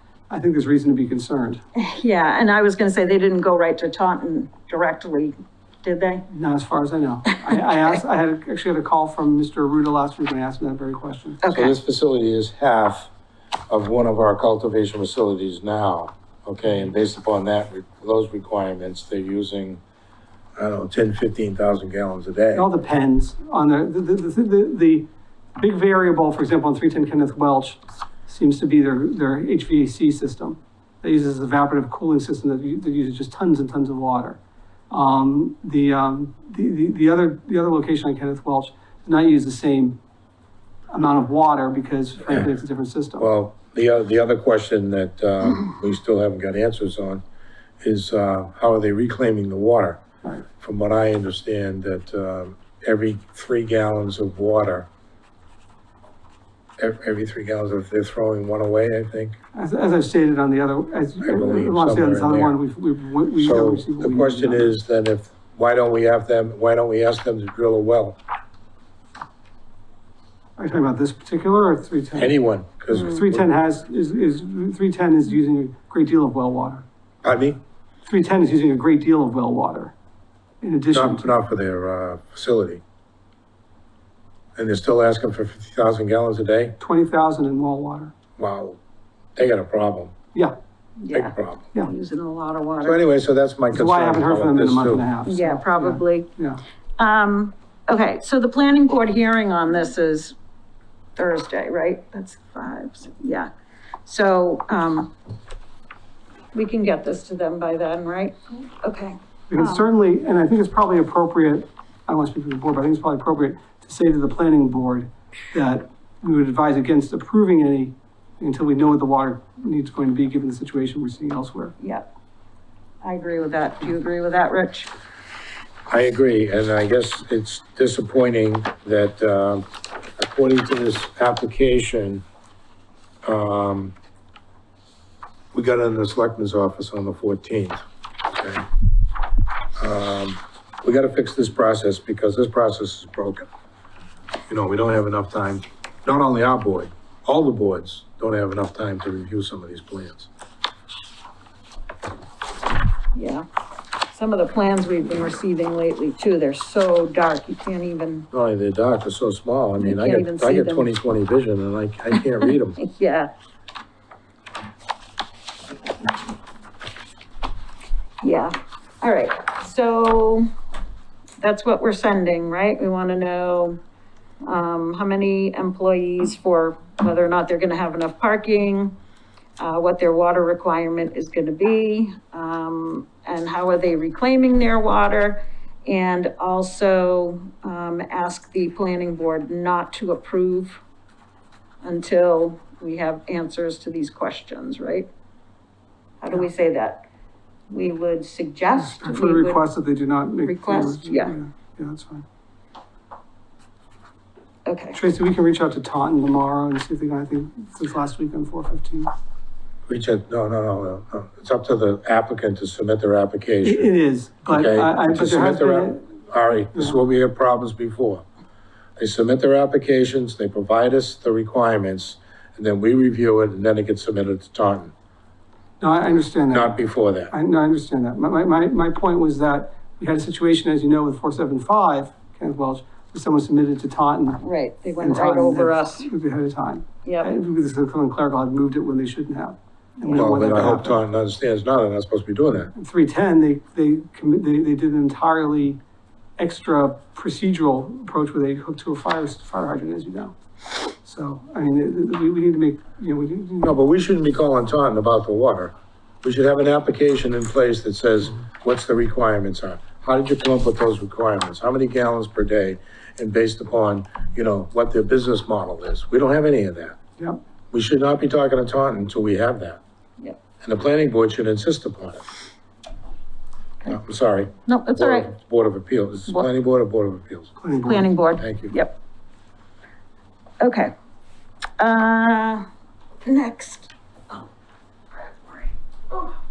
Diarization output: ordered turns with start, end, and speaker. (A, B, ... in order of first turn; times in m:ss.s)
0:00.3-0:01.6 A
0:01.8-0:06.2 B
0:06.3-0:11.4 A
0:11.4-0:11.7 B
0:11.5-0:13.1 C
0:13.7-0:19.8 C
0:20.6-0:22.7 C
0:22.5-0:34.4 A
0:34.9-0:40.0 A
0:40.9-0:43.3 A
0:43.2-0:47.2 C
0:47.8-0:50.0 C
0:50.6-0:54.9 C
0:56.8-0:59.4 C
0:59.5-1:04.7 A
1:01.2-1:02.6 C
1:03.4-1:08.2 C
1:10.6-1:12.3 A
1:12.1-1:13.5 C
1:12.9-1:13.2 B
1:13.0-1:16.8 A
1:17.2-1:17.6 C
1:18.0-1:19.9 A
1:20.6-1:21.3 A
1:20.9-1:22.8 C
1:24.6-1:26.8 C
1:26.8-1:28.1 A
1:28.4-1:28.8 C
1:29.4-1:30.1 C
1:31.0-1:33.0 B
1:31.1-1:31.7 C
1:32.8-1:35.1 C
1:33.7-1:36.6 A
1:35.2-1:36.3 B
1:37.0-1:40.3 B
1:41.2-1:43.5 B
1:44.0-1:45.1 B
1:46.5-1:49.9 B
1:49.5-2:01.7 A
2:01.8-2:02.1 B
2:03.0-2:04.9 B
2:05.9-2:09.6 C
2:10.2-2:12.2 C
2:13.2-2:14.0 C
2:15.5-2:17.8 C
2:18.3-2:18.6 C
2:19.8-2:23.5 C
2:24.5-2:30.3 C
2:33.1-2:33.4 B
2:34.1-2:38.3 B
2:38.3-2:42.8 C
2:39.8-2:40.9 B
2:42.8-2:43.3 B
2:48.2-2:50.4 B
2:51.4-2:53.8 B
2:54.4-2:58.9 B
2:59.6-3:10.8 B
3:11.8-3:15.1 B
3:16.2-3:17.0 B
3:17.7-3:19.7 B
3:18.8-3:22.2 A
3:20.4-3:21.3 B
3:24.6-3:25.0 B
3:24.9-3:29.1 A
3:29.9-3:33.9 C
3:33.6-3:36.0 A
3:34.5-3:38.2 C
3:39.0-3:44.9 C
3:45.8-3:46.8 A
3:46.5-3:47.3 C
3:47.3-3:54.4 A
3:54.4-3:56.1 B
3:55.0-4:01.0 A
3:57.0-3:57.3 B
4:00.0-4:00.7 B
4:00.2-4:02.7 C
4:02.7-4:05.8 A
4:06.4-4:13.7 A
4:13.6-4:27.0 C
4:27.7-4:29.8 C
4:30.6-4:32.2 C
4:33.9-4:37.6 C
4:34.6-4:35.3 B
4:37.6-4:38.1 A
4:37.8-4:38.9 B
4:38.4-4:38.8 C
4:40.6-4:40.9 B
4:41.8-4:42.6 B
4:43.2-4:44.4 B